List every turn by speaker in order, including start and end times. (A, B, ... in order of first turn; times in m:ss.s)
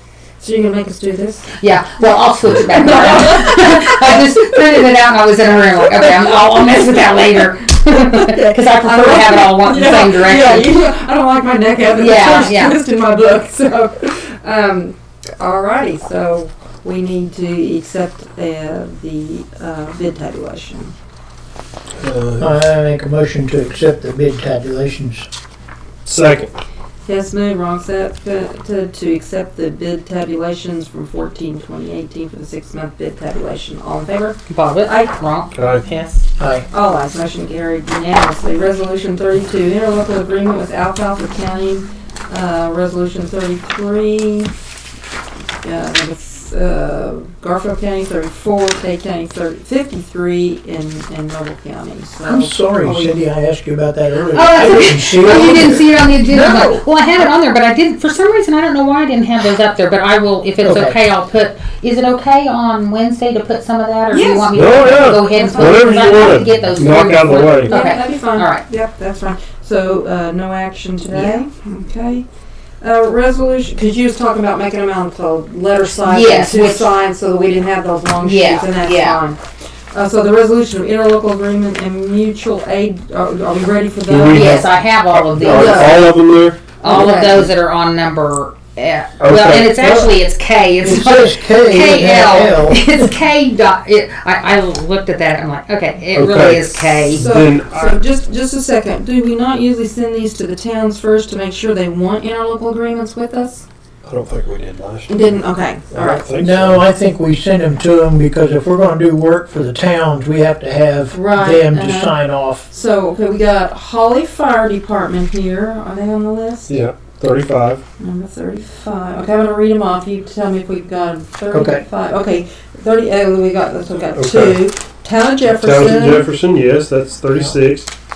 0:00.4-0:01.5 A
0:01.6-0:10.8 B
0:02.7-0:04.3 A
0:06.2-0:06.4 A
0:07.9-0:20.9 A
0:11.9-0:12.8 B
0:22.0-0:22.5 C
0:22.4-0:25.3 D
0:26.0-0:26.5 C
0:27.0-0:35.4 A
0:34.5-0:36.2 B
0:35.5-0:35.8 C
0:36.4-0:36.6 D
0:36.7-0:44.5 A
0:45.6-0:53.2 A
0:52.2-0:56.8 D
0:54.3-1:08.6 B
1:00.6-1:01.0 D
1:04.1-1:06.4 A
1:04.5-1:07.7 C
1:07.3-1:12.2 A
1:11.1-1:11.4 B
1:12.8-1:19.4 A
1:16.0-1:16.9 B
1:18.2-1:19.2 B
1:19.9-1:24.6 A
1:24.1-1:26.8 C
1:24.3-1:26.0 B
1:25.4-1:26.0 A
1:26.8-1:27.5 A
1:26.8-1:37.3 B
1:29.2-1:30.1 C
1:30.8-1:33.0 D
1:36.1-1:38.0 C
1:37.1-1:43.7 A
1:44.0-1:45.3 C
1:45.1-1:46.2 A
1:45.9-1:46.8 C
1:46.4-1:52.6 D
1:51.1-1:56.8 A
1:56.7-1:57.8 C
1:58.0-2:06.2 A
2:01.5-2:01.8 D
2:04.1-2:04.6 C
2:05.4-2:07.9 C